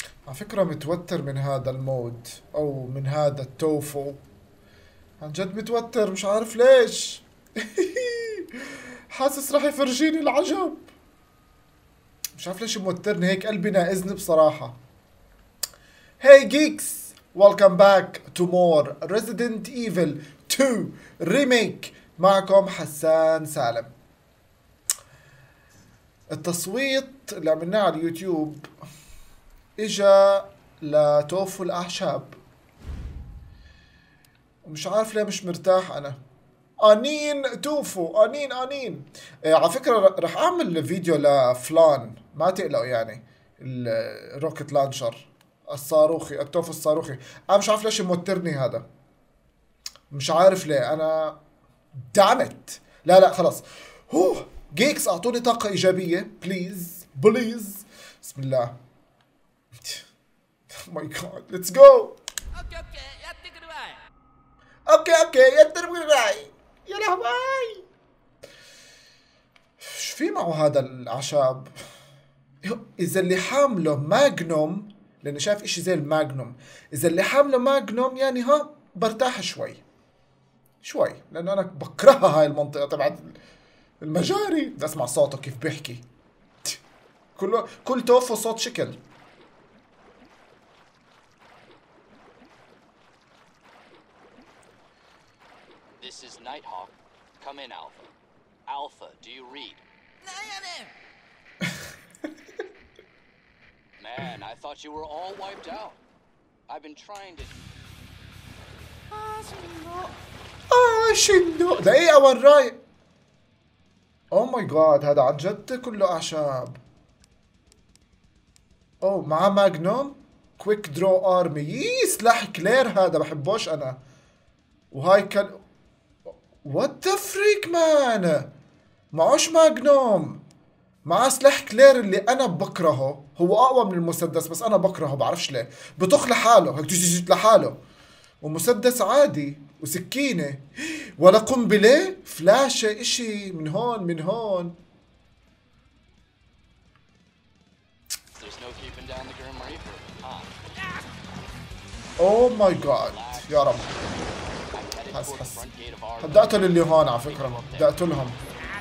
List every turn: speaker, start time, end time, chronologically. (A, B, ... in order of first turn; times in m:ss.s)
0:00.2-0:04.2 A
0:05.2-0:10.9 A
0:12.4-0:14.8 A
0:16.2-0:23.9 A
0:26.3-0:28.7 A
0:29.8-0:32.4 A
0:34.6-0:36.2 A
0:36.8-0:48.8 A
0:50.1-0:51.4 A
0:52.1-0:58.8 A
1:00.7-1:02.2 A
1:04.9-1:07.8 A
1:09.8-1:11.7 A
1:12.6-1:19.8 A
1:20.8-1:23.4 A
1:24.0-1:26.0 A
1:27.4-1:29.0 A
1:36.0-1:38.1 B
1:38.7-1:39.8 B
1:40.4-1:40.8 B
1:44.0-1:46.0 B
1:46.7-1:47.5 B
1:50.7-1:52.8 A
1:54.3-1:56.8 A
1:59.0-2:04.0 A
2:04.9-2:05.6 A
2:06.6-2:08.5 A
2:09.1-2:10.4 A
2:11.0-2:17.8 A
2:18.4-2:24.8 A
2:28.4-2:30.6 B
2:32.2-2:33.9 A
2:32.5-2:33.8 B
2:34.7-2:37.9 B
2:35.1-2:35.6 A
2:36.2-2:38.4 A